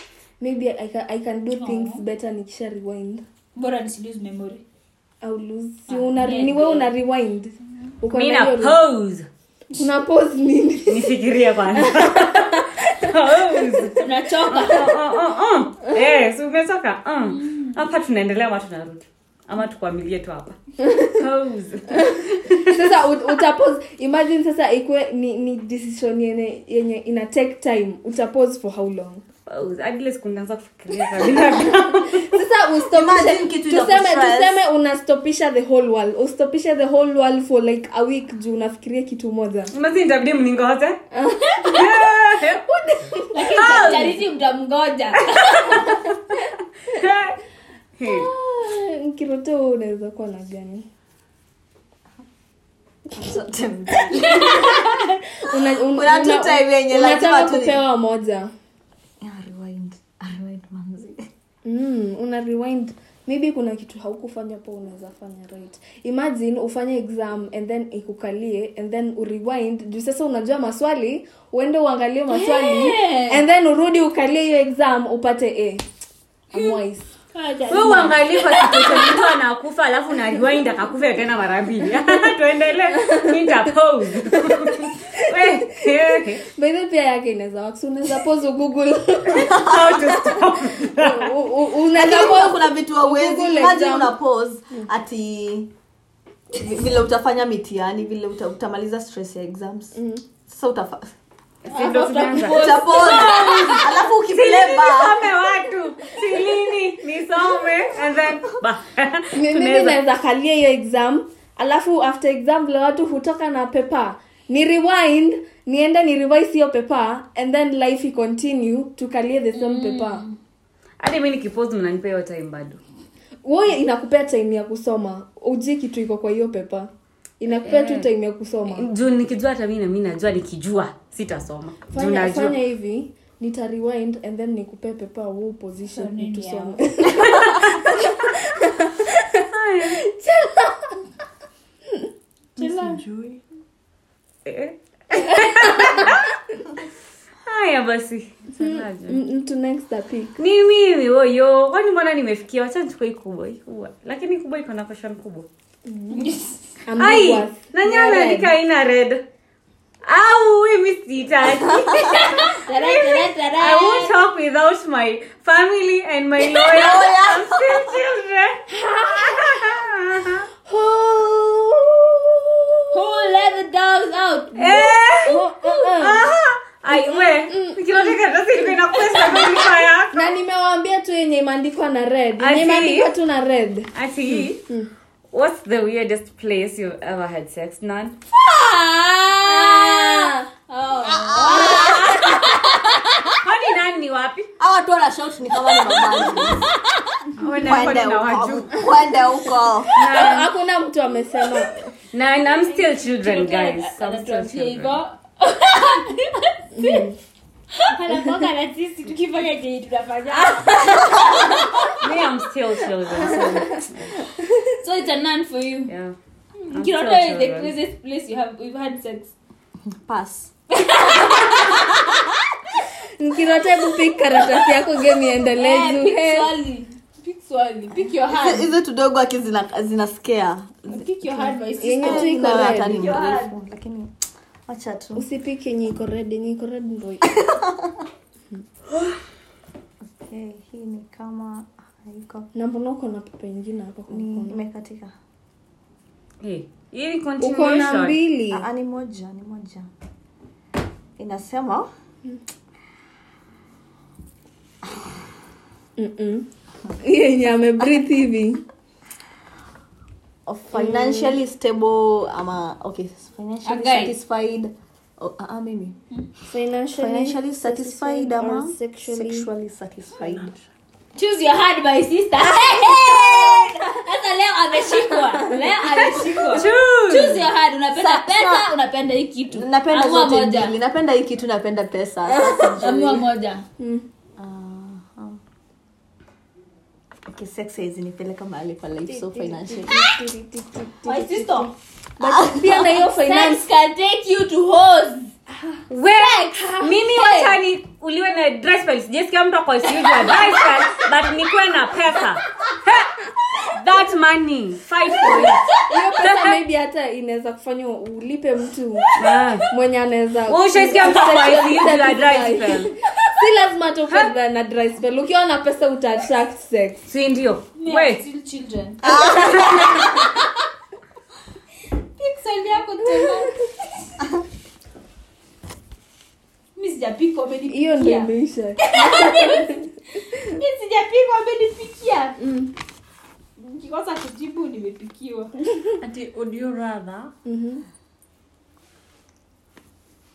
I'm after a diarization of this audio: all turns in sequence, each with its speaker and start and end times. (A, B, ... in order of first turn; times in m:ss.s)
0:00.4-0:03.2 A
0:01.6-0:02.0 B
0:03.6-0:04.6 B
0:05.2-0:08.8 A
0:05.9-0:06.9 B
0:08.1-0:09.3 C
0:09.8-0:11.2 A
0:10.9-0:22.8 C
0:11.7-0:13.9 A
0:14.0-0:14.9 B
0:17.4-0:17.7 B
0:22.0-0:29.2 A
0:29.5-0:32.3 C
0:32.0-0:39.7 A
0:32.9-0:34.6 D
0:39.7-0:41.0 C
0:41.1-0:43.9 A
0:41.7-0:42.6 C
0:43.3-0:45.9 B
0:43.5-0:44.2 C
0:46.9-0:47.4 C
0:48.0-0:48.3 C
0:48.1-0:50.9 A
0:53.1-0:57.8 D
0:54.2-0:54.8 B
0:55.4-0:58.5 A
0:59.2-1:01.3 D
1:01.6-1:15.8 A
1:12.3-1:13.4 B
1:16.5-1:17.1 A
1:16.5-1:16.8 B
1:17.3-1:19.2 B
1:17.7-1:26.4 C
1:22.9-1:23.5 A
1:24.4-1:34.2 A
1:29.4-1:31.3 C
1:29.4-1:30.0 D
1:31.9-1:35.7 D
1:36.5-1:41.1 D
1:39.9-1:40.2 A
1:41.6-1:50.0 C
1:41.7-1:43.9 B
1:42.5-1:45.3 D
1:49.3-2:00.2 A
1:59.5-2:00.4 B
2:01.0-2:02.8 C
2:03.4-2:08.9 A
2:07.6-2:08.1 C
2:08.7-2:12.6 C
2:11.9-2:21.0 A
2:15.9-2:16.8 B
2:17.3-2:17.8 C
2:19.4-2:20.0 C
2:22.6-2:23.4 E
2:22.6-2:23.0 A
2:24.4-2:26.3 C
2:25.2-2:26.1 A
2:27.5-2:29.2 C
2:28.6-2:30.4 A
2:30.4-2:35.5 C
2:35.9-2:36.3 A
2:36.1-2:36.7 B
2:36.9-2:38.5 A
2:37.0-2:39.2 C
2:40.0-2:50.5 C
2:41.8-2:42.2 D
2:42.0-2:44.1 B
2:46.6-2:48.0 D
2:48.8-2:49.7 A
2:50.7-2:53.0 A
2:52.9-2:55.0 B
2:54.6-3:00.2 C
2:55.2-2:56.3 A
2:56.9-2:58.2 A
3:00.1-3:03.9 A
3:02.4-3:03.1 C
3:03.9-3:04.6 C
3:04.5-3:04.9 A
3:05.3-3:08.2 C
3:08.4-3:13.4 B
3:09.4-3:10.5 A
3:11.0-3:12.3 D
3:11.4-3:12.4 A
3:13.4-3:14.5 C
3:14.6-3:16.7 D
3:17.4-3:18.9 C
3:17.6-3:19.9 D
3:20.0-3:20.5 C
3:20.0-3:21.9 A
3:22.1-3:25.0 C
3:22.7-3:27.0 B
3:26.7-3:27.2 A
3:27.7-3:32.0 B
3:31.9-3:34.2 C
3:33.3-3:34.7 A
3:34.8-3:35.9 B
3:35.9-3:36.2 C
3:36.6-3:39.3 B
3:36.7-3:37.7 C
3:39.9-3:40.5 D
3:40.7-3:42.0 B
3:43.2-3:46.5 A
3:45.6-3:48.7 B
3:48.3-3:54.1 D
3:50.9-3:53.5 B
3:51.8-3:53.2 A
3:54.7-3:55.2 D
3:55.2-3:57.3 A
3:57.3-3:57.9 D
4:00.0-4:02.5 D
4:02.5-4:04.6 A
4:04.1-4:05.1 D
4:06.4-4:08.2 C
4:07.4-4:08.7 A
4:08.5-4:09.9 D
4:11.2-4:11.9 D
4:16.0-4:16.5 A
4:17.0-4:18.6 A
4:20.5-4:26.0 D
4:20.7-4:21.4 A
4:23.6-4:24.2 B
4:26.5-4:29.5 A
4:27.0-4:30.5 D
4:30.2-4:30.6 E
4:31.2-4:40.8 B
4:32.5-4:33.8 D
4:35.4-4:35.8 A
4:36.5-4:37.5 C
4:37.9-4:38.7 D
4:39.5-4:43.3 D
4:42.3-4:42.7 A
4:42.8-4:43.6 B
4:43.8-4:44.1 A
4:44.4-4:45.4 D
4:47.3-4:50.0 D
4:49.1-4:53.6 A
4:51.0-4:51.7 B
4:52.2-4:53.0 D
4:53.2-4:55.4 B
4:55.9-5:05.6 C
4:56.2-4:57.6 B
5:00.0-5:00.7 B
5:05.9-5:09.1 A
5:06.2-5:06.6 C
5:09.2-5:09.7 C
5:09.7-5:17.0 A
5:10.5-5:12.9 C
5:17.1-5:18.2 C
5:17.8-5:19.5 B
5:19.0-5:20.1 D
5:19.6-5:20.0 C
5:22.2-5:23.7 B
5:23.1-5:23.4 A
5:26.8-5:32.4 B
5:27.7-5:29.9 A
5:32.4-5:32.7 A
5:33.6-5:35.5 B
5:36.0-5:37.3 E
5:37.4-5:37.8 A